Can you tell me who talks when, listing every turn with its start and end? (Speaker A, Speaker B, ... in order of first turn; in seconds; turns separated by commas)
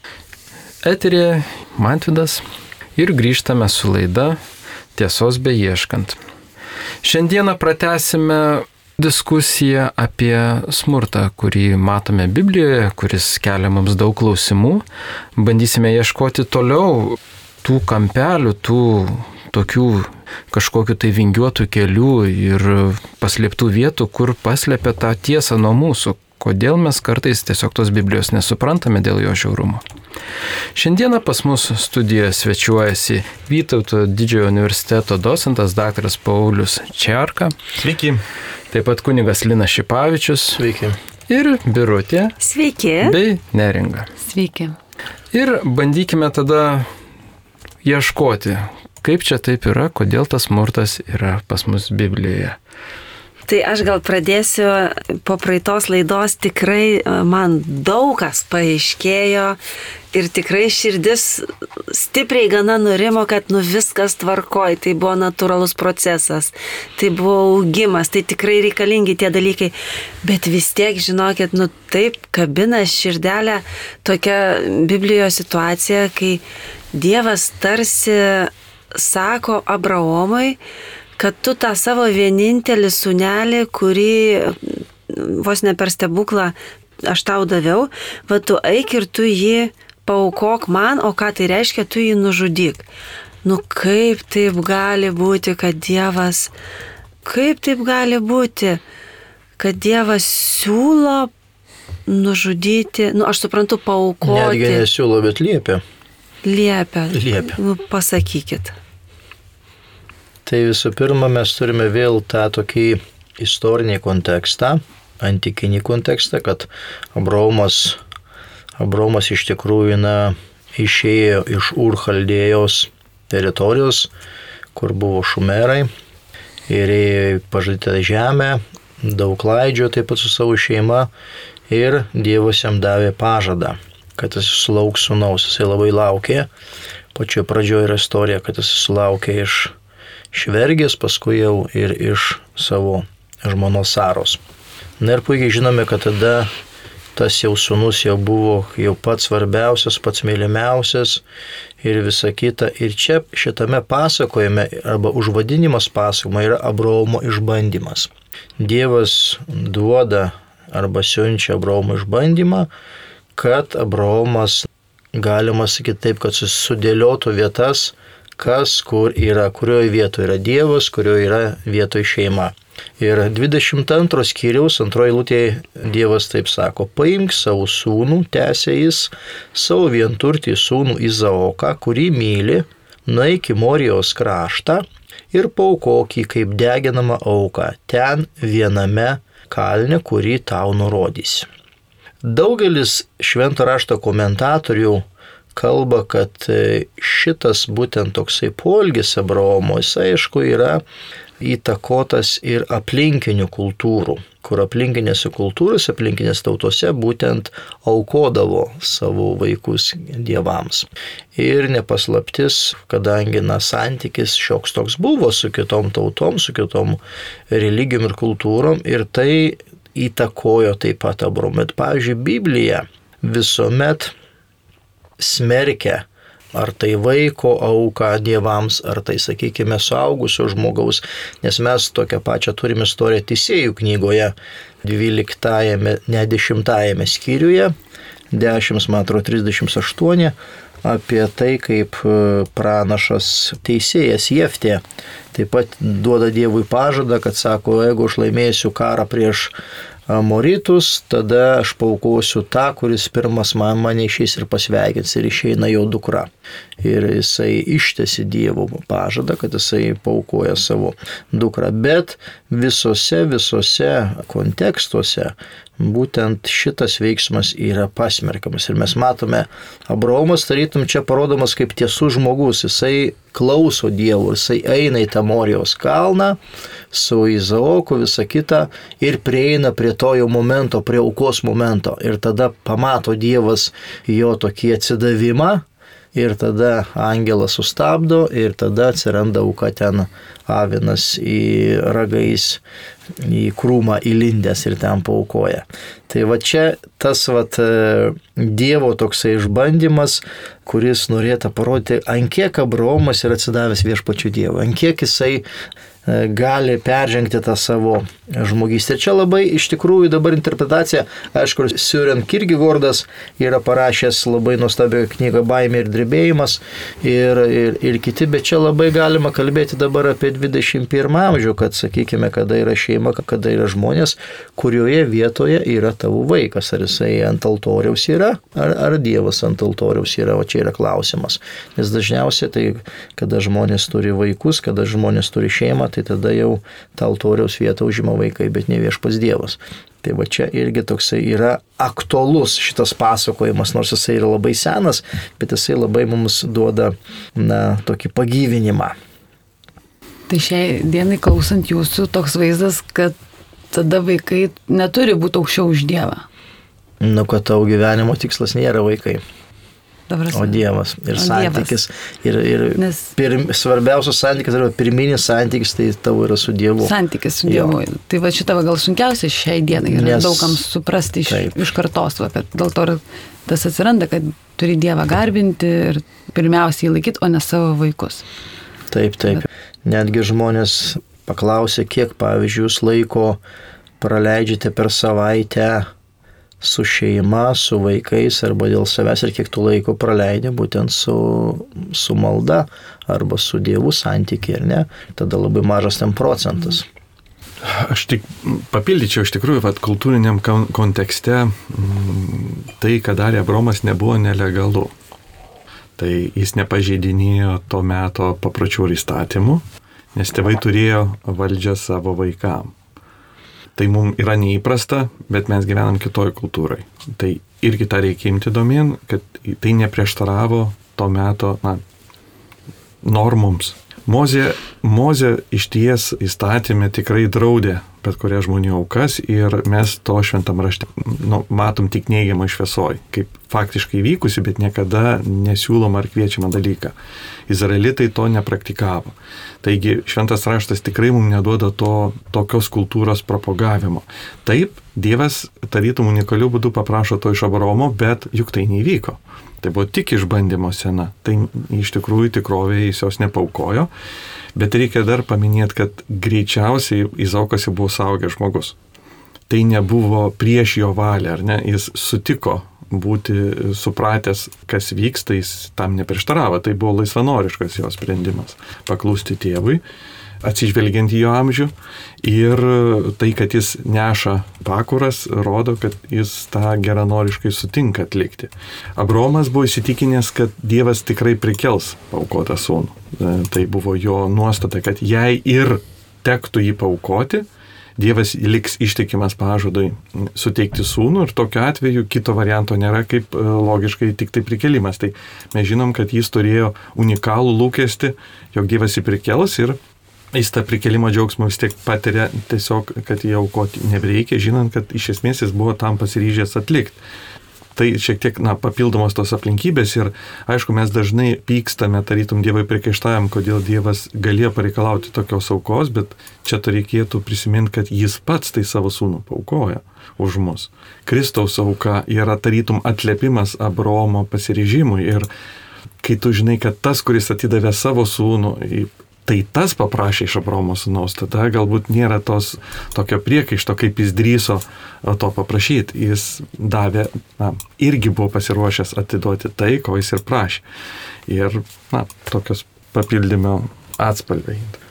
Speaker A: 0.8-2.4, Speaker A: 3.0-4.4, Speaker A: 4.9-6.2, Speaker A: 7.0-14.8, Speaker A: 15.3-29.8, Speaker A: 30.7-37.5, Speaker B: 37.8-38.2, Speaker A: 38.7-40.6, Speaker C: 40.5-41.0, Speaker A: 41.3-42.4, Speaker D: 42.4-43.1, Speaker A: 43.0-44.1, Speaker E: 44.2-44.8, Speaker A: 45.3-46.9, Speaker A: 47.8-52.6, Speaker D: 53.5-59.6, Speaker D: 60.1-76.4, Speaker D: 76.9-80.6, Speaker D: 81.2-84.6, Speaker D: 85.1-92.9, Speaker D: 93.4-96.5, Speaker D: 97.2-98.8, Speaker D: 99.6-101.3, Speaker D: 102.1-104.8, Speaker C: 104.2-105.8, Speaker D: 106.4-108.7, Speaker C: 107.1-107.5, Speaker C: 110.5-118.0, Speaker C: 118.8-124.1, Speaker C: 124.7-125.9, Speaker C: 126.7-131.1, Speaker C: 131.7-136.5, Speaker C: 137.1-139.7, Speaker C: 140.3-144.4, Speaker C: 145.0-146.5, Speaker C: 147.1-151.2, Speaker C: 151.8-162.7, Speaker C: 163.3-191.5, Speaker C: 192.2-200.8, Speaker C: 201.4-217.0, Speaker C: 217.5-224.1, Speaker C: 225.2-237.7, Speaker C: 238.3-249.5, Speaker C: 250.1-256.3, Speaker C: 256.8-276.4, Speaker C: 276.9-292.6, Speaker C: 293.2-305.4, Speaker C: 306.1-348.9, Speaker E: 350.3-353.1, Speaker E: 353.7-356.2, Speaker C: 357.0-359.2, Speaker E: 360.1-360.6, Speaker C: 360.3-366.9, Speaker E: 361.1-361.8, Speaker E: 362.8-363.1, Speaker E: 366.8-378.2, Speaker C: 367.4-367.7, Speaker C: 369.9-370.6, Speaker C: 371.3-371.5, Speaker C: 378.9-383.4, Speaker C: 384.0-385.9, Speaker C: 386.6-396.9, Speaker B: 397.6-404.9, Speaker B: 406.0-409.6, Speaker B: 410.1-412.7, Speaker B: 413.8-421.8, Speaker B: 423.0-436.9, Speaker B: 437.5-453.9, Speaker B: 454.5-458.7, Speaker B: 459.5-469.8, Speaker B: 470.4-487.4, Speaker B: 488.0-499.8, Speaker B: 500.3-507.0, Speaker B: 507.8-525.3, Speaker B: 526.0-540.6, Speaker B: 541.3-544.8